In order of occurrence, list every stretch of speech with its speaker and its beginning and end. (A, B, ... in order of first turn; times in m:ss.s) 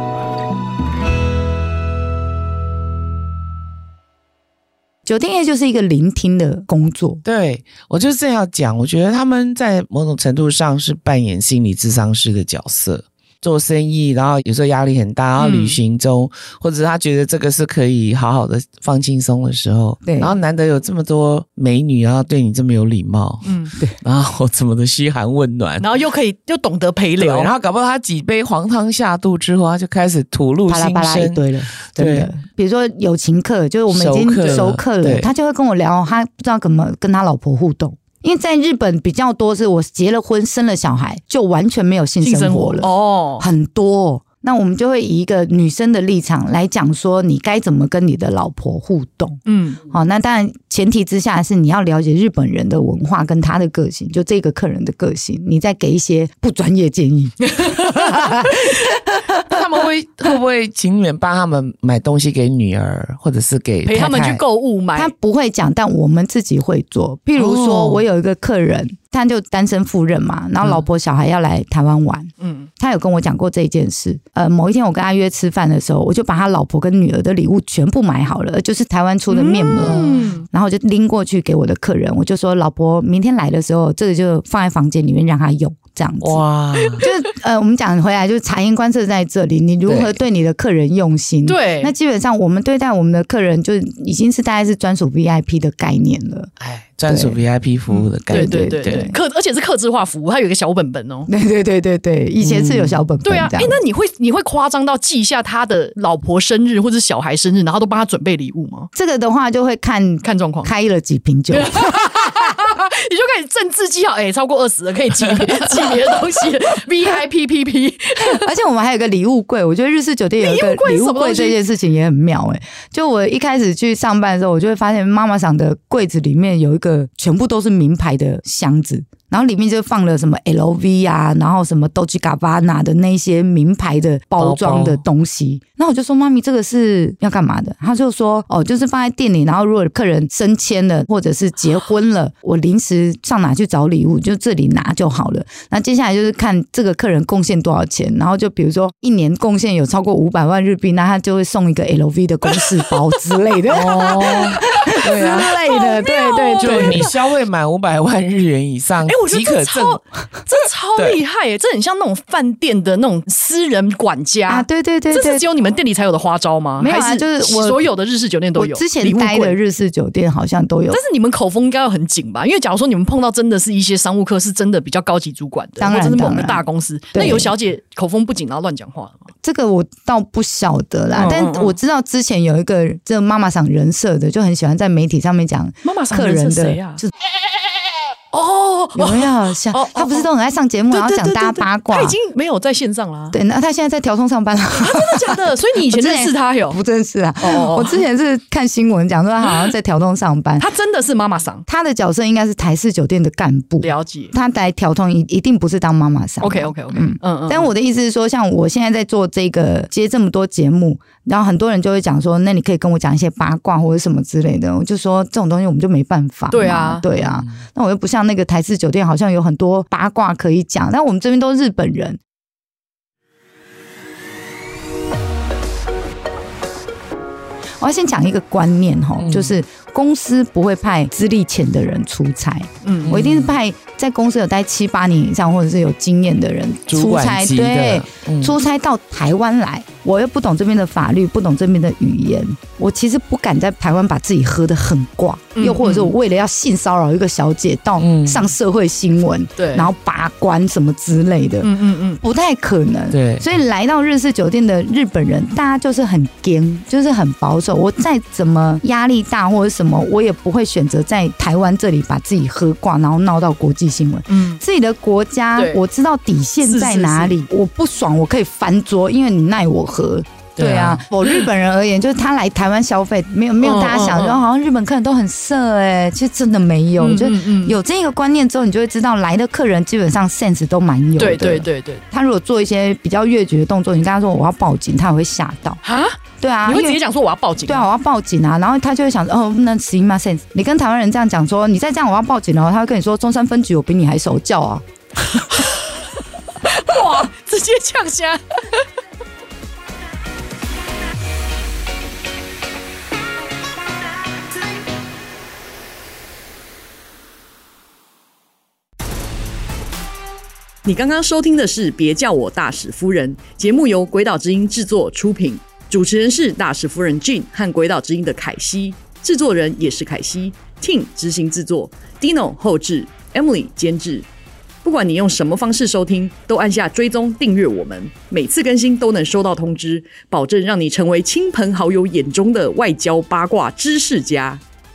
0:05.0-0:07.2 A
0:07.2-0:23.5 B
0:15.4-0:15.8 C
0:20.0-0:20.3 A
0:23.4-0:23.7 C
0:24.0-0:25.9 B
0:25.8-0:27.5 C
0:27.2-0:32.3 B
0:30.7-0:59.2 A
0:33.9-0:35.3 B
0:42.2-0:43.5 C
0:49.4-0:49.8 C
0:57.4-0:58.5 C
0:59.4-1:04.4 B
1:03.8-1:05.1 C
1:04.9-1:36.5 A
1:07.4-1:08.0 B
1:12.4-1:12.7 C
1:19.3-1:20.5 C
1:19.8-1:20.1 B
1:26.2-1:27.0 B
1:29.8-1:30.2 B
1:31.5-1:31.9 C
1:36.6-1:39.1 B
1:37.1-1:37.4 A
1:37.9-1:41.3 C
1:38.3-1:39.1 A
1:41.3-1:43.8 A
1:42.4-1:43.0 B
1:43.2-1:48.9 C
1:48.9-1:52.4 A
1:50.2-1:50.7 C
1:51.5-1:58.5 C
1:58.2-2:37.1 A
2:00.4-2:01.6 C
2:14.4-2:15.0 B
2:33.7-2:35.6 B
2:34.0-2:37.1 C
2:36.6-2:40.0 B
2:39.0-2:49.6 C
2:44.5-2:45.5 A
2:46.8-2:47.8 A
2:48.5-2:51.0 A
2:50.9-2:59.3 C
2:55.8-2:57.5 A
2:59.4-3:07.1 A
3:01.1-3:01.8 C
3:05.8-3:07.0 C
3:08.3-3:10.3 C
3:08.9-3:12.2 A
3:10.9-3:13.4 C
3:13.3-3:20.7 A
3:14.7-3:16.8 C
3:17.4-3:18.0 C
3:20.6-3:21.6 C
3:21.7-3:42.2 A
3:23.8-3:24.3 C
3:26.4-3:27.7 C
3:36.5-3:37.0 C
3:37.2-3:37.6 B
3:47.8-4:45.8 A
3:49.2-3:49.6 B
3:52.8-3:53.2 C
3:53.0-3:53.5 B
3:56.9-3:58.6 B
4:05.5-4:06.1 C
4:08.0-4:08.5 B
4:09.6-4:09.9 C
4:11.6-4:12.2 C
4:13.1-4:13.5 B
4:24.3-4:24.6 C
4:25.6-4:25.8 C
4:26.6-4:27.4 C
4:30.6-4:31.4 C
4:33.6-4:34.4 C
4:37.0-4:37.8 C
4:41.2-4:42.0 C
4:45.8-4:47.9 C
4:46.4-4:47.0 A
4:47.6-4:54.8 A
4:55.5-4:55.8 C
4:56.7-4:58.8 C
5:10.8-5:24.3 C
5:24.8-5:34.6 C